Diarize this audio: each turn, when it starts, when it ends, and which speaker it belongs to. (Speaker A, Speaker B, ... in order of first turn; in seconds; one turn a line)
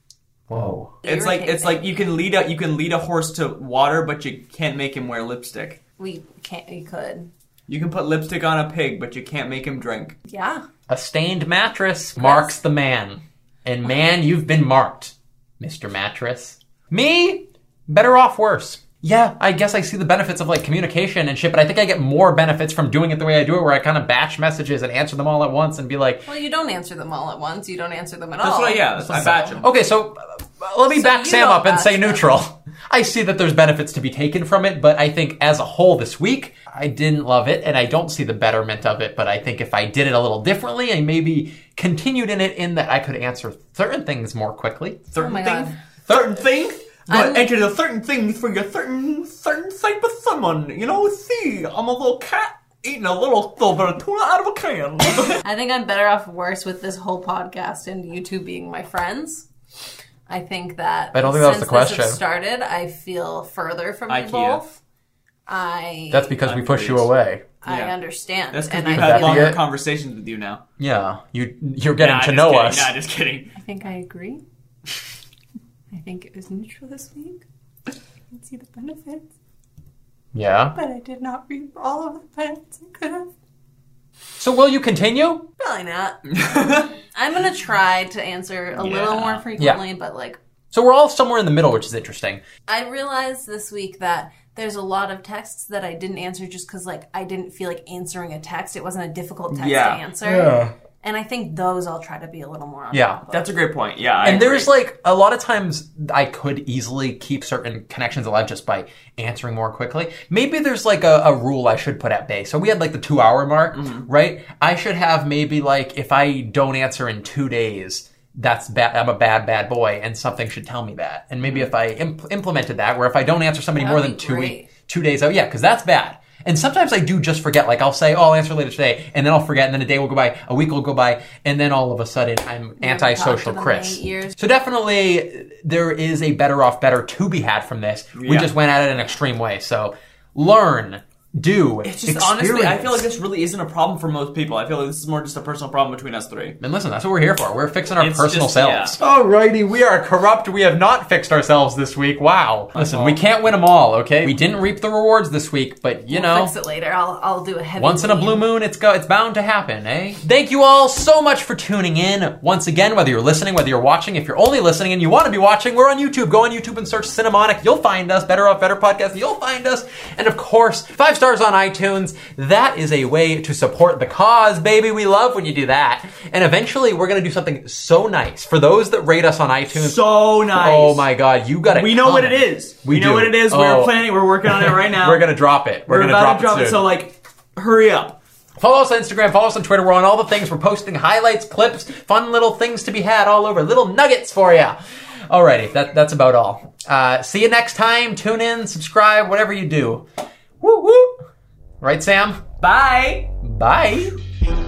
Speaker A: 0.5-1.0
Speaker B: 1.0-1.9
Speaker C: 1.1-5.8
Speaker B: 6.0-7.3
Speaker C: 7.7-10.2
Speaker B: 10.3-10.6
Speaker A: 10.9-26.2
Speaker B: 12.2-12.6
Speaker B: 26.2-28.9
Speaker C: 28.4-29.7
Speaker A: 29.0-45.1
Speaker B: 30.9-32.3
Speaker C: 45.1-55.4
Speaker B: 45.2-45.8
Speaker B: 47.1-47.5
Speaker B: 55.1-59.5
Speaker B: 60.3-64.7
Speaker A: 61.1-62.2
Speaker C: 64.1-64.8
Speaker B: 65.5-66.4
Speaker A: 66.1-67.5
Speaker C: 66.5-67.1
Speaker B: 67.6-69.6
Speaker C: 67.7-68.0
Speaker C: 68.5-70.6
Speaker A: 68.9-69.6
Speaker A: 70.8-72.9
Speaker C: 72.0-73.5
Speaker B: 73.6-74.4
Speaker B: 75.9-77.4
Speaker B: 78.3-79.3
Speaker A: 80.3-80.8
Speaker B: 80.7-83.3
Speaker A: 84.4-85.5
Speaker B: 85.6-86.2
Speaker C: 86.3-86.9
Speaker B: 87.1-90.4
Speaker C: 88.8-89.5
Speaker A: 89.6-89.8
Speaker A: 90.7-92.4
Speaker B: 92.7-103.5
Speaker C: 99.5-100.0
Speaker A: 100.3-100.7
Speaker A: 102.9-103.2
Speaker C: 103.3-104.7
Speaker A: 104.2-143.1
Speaker C: 113.7-114.1
Speaker C: 121.4-121.7
Speaker B: 123.8-124.7
Speaker B: 132.8-134.4
Speaker C: 138.2-138.5
Speaker C: 141.8-146.6
Speaker A: 146.6-156.5
Speaker C: 148.0-149.0
Speaker C: 152.8-153.2
Speaker B: 156.1-158.5
Speaker A: 157.8-186.9
Speaker C: 179.7-181.1
Speaker C: 181.7-185.3
Speaker C: 185.9-188.2
Speaker A: 188.6-200.1
Speaker A: 200.6-201.2
Speaker A: 201.8-202.4
Speaker C: 202.6-203.3
Speaker A: 203.4-204.2